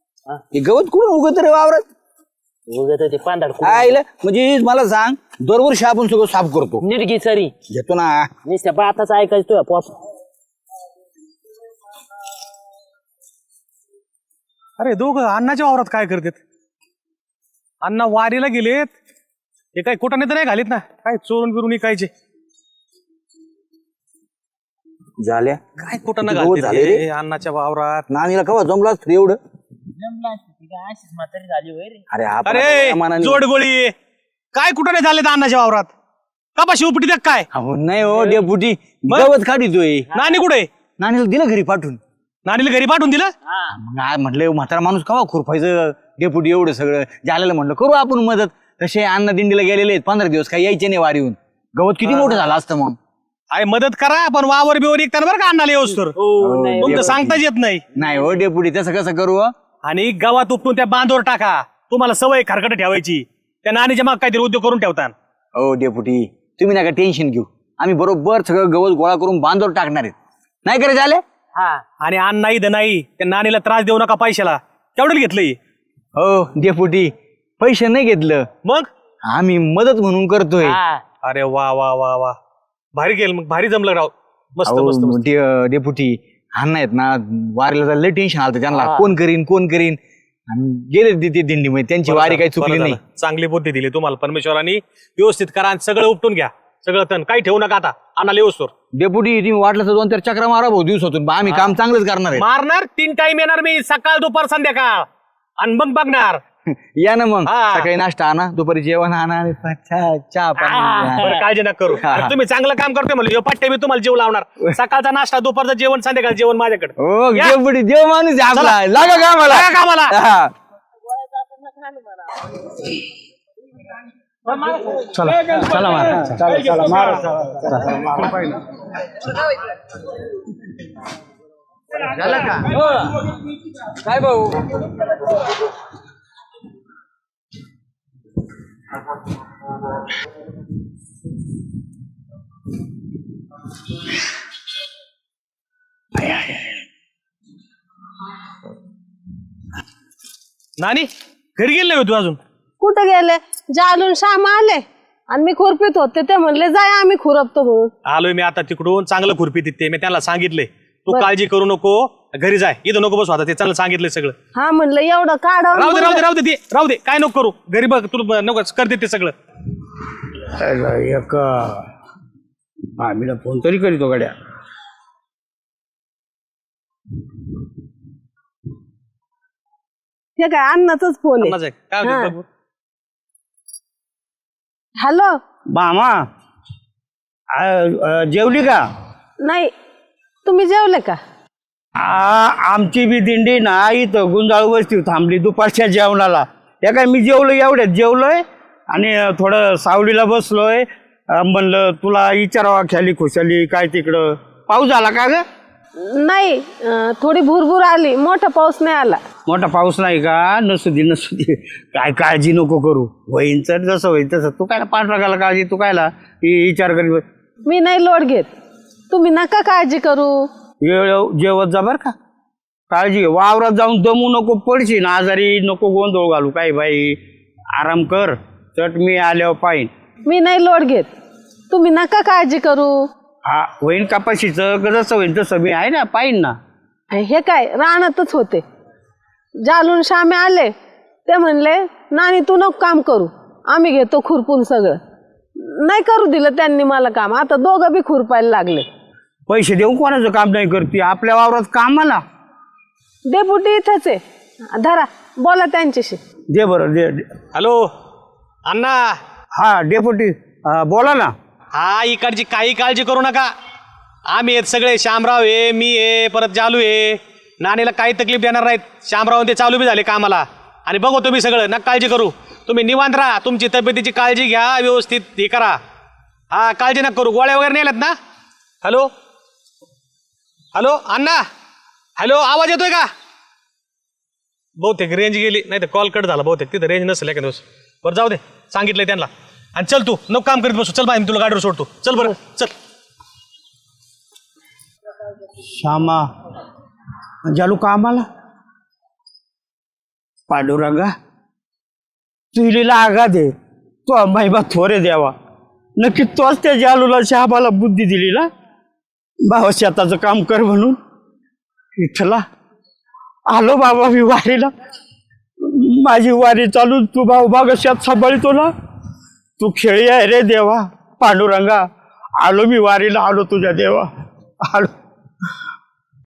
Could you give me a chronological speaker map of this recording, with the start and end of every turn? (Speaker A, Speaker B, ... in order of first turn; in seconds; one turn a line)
Speaker A: 0.5-1.8
Speaker B: 2.7-4.0
Speaker A: 3.6-6.8
Speaker B: 6.8-7.5
Speaker A: 7.7-8.3
Speaker B: 8.4-10.0
Speaker C: 14.8-16.4
Speaker C: 17.8-18.9
Speaker C: 19.8-22.1
Speaker A: 25.2-25.6
Speaker C: 25.8-28.1
Speaker A: 26.2-27.0
Speaker A: 28.1-29.4
Speaker B: 30.0-32.0
Speaker A: 32.1-33.4
Speaker C: 32.5-33.9
Speaker C: 34.5-35.9
Speaker C: 36.6-37.5
Speaker A: 37.5-40.1
Speaker B: 38.1-38.5
Speaker B: 40.1-40.4
Speaker C: 40.1-40.7
Speaker A: 41.0-42.0
Speaker C: 42.5-43.3
Speaker B: 43.5-43.7
Speaker A: 43.8-53.0
Speaker C: 52.0-52.5
Speaker C: 53.5-56.2
Speaker B: 56.1-57.2
Speaker A: 56.4-57.4
Speaker C: 56.8-57.8
Speaker A: 58.0-59.5
Speaker B: 58.1-58.4
Speaker C: 59.8-65.2
Speaker A: 65.5-70.2
Speaker A: 70.7-71.2
Speaker B: 71.6-71.8
Speaker C: 72.0-75.6
Speaker A: 76.2-78.5
Speaker A: 79.3-80.8
Speaker B: 80.6-81.0
Speaker C: 81.2-82.3
Speaker C: 83.0-85.3
Speaker A: 84.7-93.0
Speaker B: 88.7-89.1
Speaker C: 92.0-98.7
Speaker A: 98.9-102.5
Speaker C: 101.5-101.8
Speaker C: 102.3-105.1
Speaker C: 105.6-106.4
Speaker A: 106.7-111.4
Speaker C: 107.5-107.9
Speaker B: 110.6-111.5
Speaker C: 111.2-117.6
Speaker A: 112.0-112.3
Speaker A: 117.0-120.5
Speaker C: 118.5-120.2
Speaker B: 121.6-122.0
Speaker D: 125.1-128.4
Speaker C: 150.8-152.4
Speaker E: 152.8-157.9
Speaker C: 158.1-164.3
Speaker E: 164.6-166.2
Speaker C: 165.8-169.3
Speaker D: 170.5-171.9
Speaker D: 173.0-174.3
Speaker E: 180.4-182.3
Speaker C: 181.4-182.4
Speaker E: 185.0-185.4
Speaker D: 185.7-186.3
Speaker D: 187.5-188.9
Speaker E: 189.4-189.7
Speaker E: 190.4-191.2
Speaker D: 192.0-205.4
Speaker E: 206.0-209.2
Speaker D: 209.5-217.2
Speaker E: 217.7-218.5
Speaker E: 219.1-220.5
Speaker D: 220.8-222.1
Speaker D: 222.9-227.2
Speaker D: 227.8-229.9
Speaker E: 230.3-231.1
Speaker E: 231.7-233.1
Speaker D: 233.5-236.6
Speaker E: 237.1-238.6
Speaker E: 239.6-240.7
Speaker E: 241.3-245.0
Speaker E: 245.6-248.9
Speaker D: 249.5-252.2
Speaker E: 253.3-254.2
Speaker E: 254.7-256.2
Speaker D: 256.5-257.3
Speaker C: 257.5-257.9
Speaker C: 258.7-259.2
Speaker D: 259.5-261.4
Speaker C: 261.8-263.5
Speaker C: 264.3-275.8
Speaker C: 276.5-278.1
Speaker C: 278.8-279.1
Speaker C: 280.7-281.4
Speaker C: 282.2-283.1
Speaker C: 284.8-292.7
Speaker D: 295.6-296.3
Speaker D: 297.4-298.3
Speaker D: 300.5-301.1
Speaker D: 302.5-303.5
Speaker D: 304.1-305.4
Speaker D: 306.0-308.5
Speaker D: 309.4-311.0
Speaker D: 312.0-312.4
Speaker D: 313.5-314.7
Speaker D: 315.6-318.7
Speaker D: 319.6-321.9
Speaker D: 322.4-324.1
Speaker D: 324.6-324.9